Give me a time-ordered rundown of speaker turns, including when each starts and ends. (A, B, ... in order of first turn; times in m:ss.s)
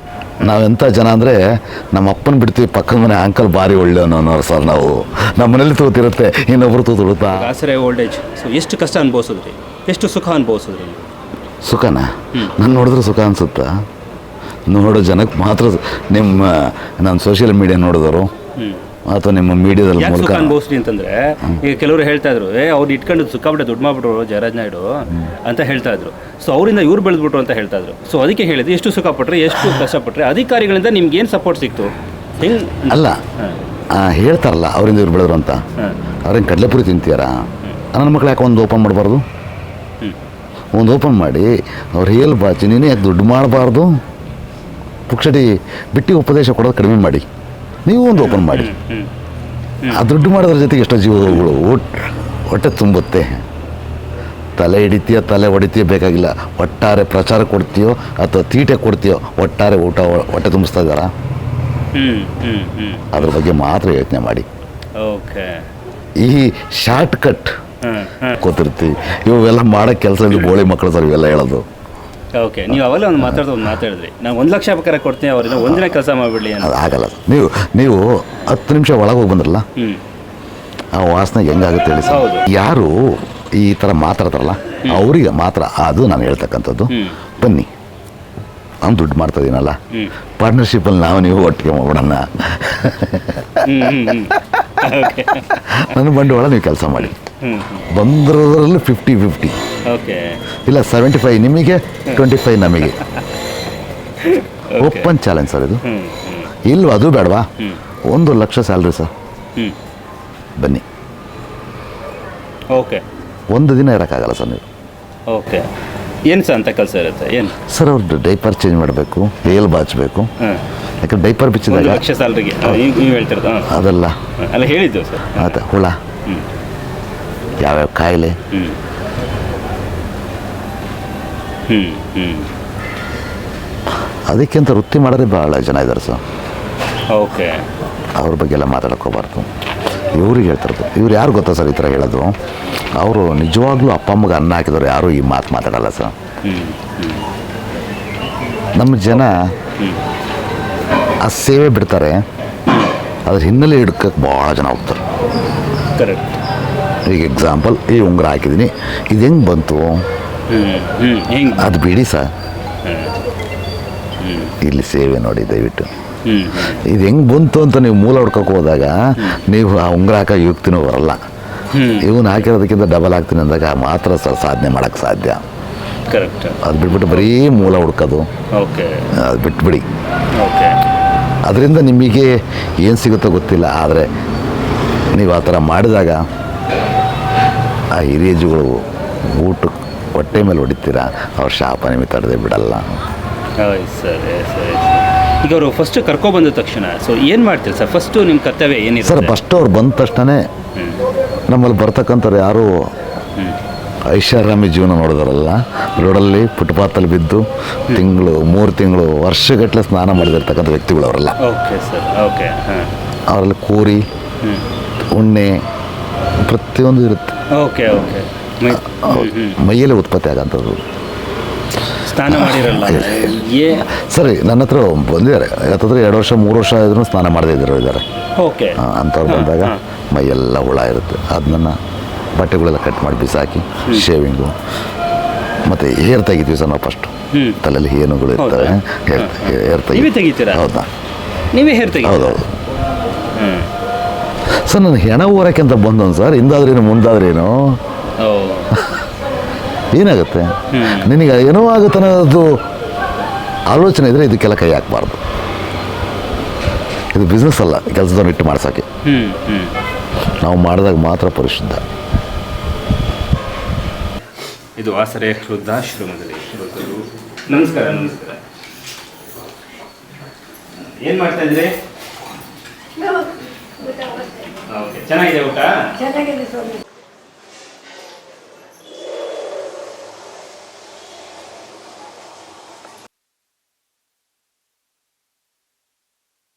0:00.4-0:07.5 A
0:07.3-0:11.1 B
0:11.6-0:13.8 A
0:12.3-0:12.6 B
0:14.7-0:18.3 A
0:18.6-0:18.8 B
0:19.1-0:20.6 A
0:20.0-0:33.6 B
0:32.9-0:33.2 A
0:33.9-0:35.6 A
0:36.2-0:39.2 A
0:40.7-0:44.0 A
0:45.1-0:47.3 A
0:47.8-0:48.7 A
0:48.2-0:49.1 B
0:49.9-0:53.4 A
0:54.6-1:01.1 A
1:01.9-1:03.4 B
1:03.1-1:04.5 A
1:05.0-1:05.6 B
1:06.2-1:07.6 A
1:07.8-1:08.4 B
1:08.3-1:11.6 A
1:12.3-1:16.8 B
1:16.6-1:19.6 A
1:19.8-1:20.0 B
1:20.9-1:27.7 A
1:22.0-1:22.5 B
1:26.9-1:27.2 B
1:28.8-1:29.8 A
1:30.4-1:33.7 A
1:33.6-1:36.0 B
1:35.6-1:37.2 A
1:37.0-1:37.8 B
1:37.9-1:39.6 A
1:39.8-1:40.4 B
1:40.6-1:43.0 A
1:44.2-1:45.1 B
1:44.7-1:45.8 A
1:45.8-1:46.5 B
1:46.6-1:47.5 A
1:48.1-1:49.1 A
1:50.6-1:50.8 A
1:52.7-1:53.0 B
1:53.5-1:54.7 A
1:55.3-1:55.7 B
1:56.3-1:57.6 B
1:57.6-2:00.3 A
2:00.4-2:00.6 B
2:01.0-2:02.0 A
2:01.7-2:03.8 B
2:03.7-2:04.2 A
2:04.4-2:05.5 B
2:05.3-2:06.0 A
2:07.6-2:08.4 A
2:08.5-2:08.8 B
2:11.7-2:12.5 B
2:14.3-2:16.2 A
2:17.1-2:17.6 B
2:18.2-2:19.5 A
2:20.1-2:22.3 A
2:23.0-2:26.1 A
2:26.4-2:27.3 B
2:28.8-2:29.5 A
2:31.2-2:32.2 A
2:32.7-2:32.9 B
2:33.2-2:35.0 A
2:36.0-2:36.4 B
2:37.0-2:40.0 A
2:40.5-2:41.8 B
2:41.6-2:42.3 A
2:42.8-2:43.2 B
2:44.2-2:44.6 B
2:44.6-2:45.9 A
2:46.2-2:46.8 B
2:46.6-2:51.2 A
2:51.7-2:52.4 B
2:51.9-2:55.4 A
2:56.1-2:57.3 B
2:56.6-2:58.3 A
2:58.5-2:59.1 B
2:59.1-2:59.8 A
3:00.3-3:00.9 B
3:01.4-3:04.1 A
3:05.1-3:06.2 A
3:07.9-3:13.0 A
3:13.6-3:19.4 B
3:19.0-3:20.4 A
3:20.8-3:21.0 B
3:21.5-3:22.9 A
3:24.0-3:31.4 A
3:31.4-3:32.9 B
3:33.3-3:34.0 A
3:34.4-3:34.7 B
3:35.1-3:35.6 A
3:36.4-3:37.4 A
3:37.5-3:39.6 B
3:38.9-3:40.8 A
3:42.0-3:43.9 B
3:42.2-3:43.4 A
3:43.9-3:48.0 A
3:48.4-3:49.8 B
3:48.8-3:51.8 A
3:52.3-3:54.6 A
3:55.6-4:00.9 A
3:57.3-3:57.6 B
3:58.4-4:00.7 B
4:01.5-4:02.4 B
4:02.0-4:02.5 A
4:03.3-4:03.7 B
4:04.6-4:07.8 A
4:08.2-4:08.8 B
4:09.9-4:12.5 A
4:10.7-4:11.1 B
4:13.7-4:15.2 A
4:17.1-4:18.8 A
4:19.0-4:19.8 B
4:20.4-4:21.8 A
4:24.8-4:28.4 B
4:30.8-4:31.8 B
4:34.7-4:36.4 B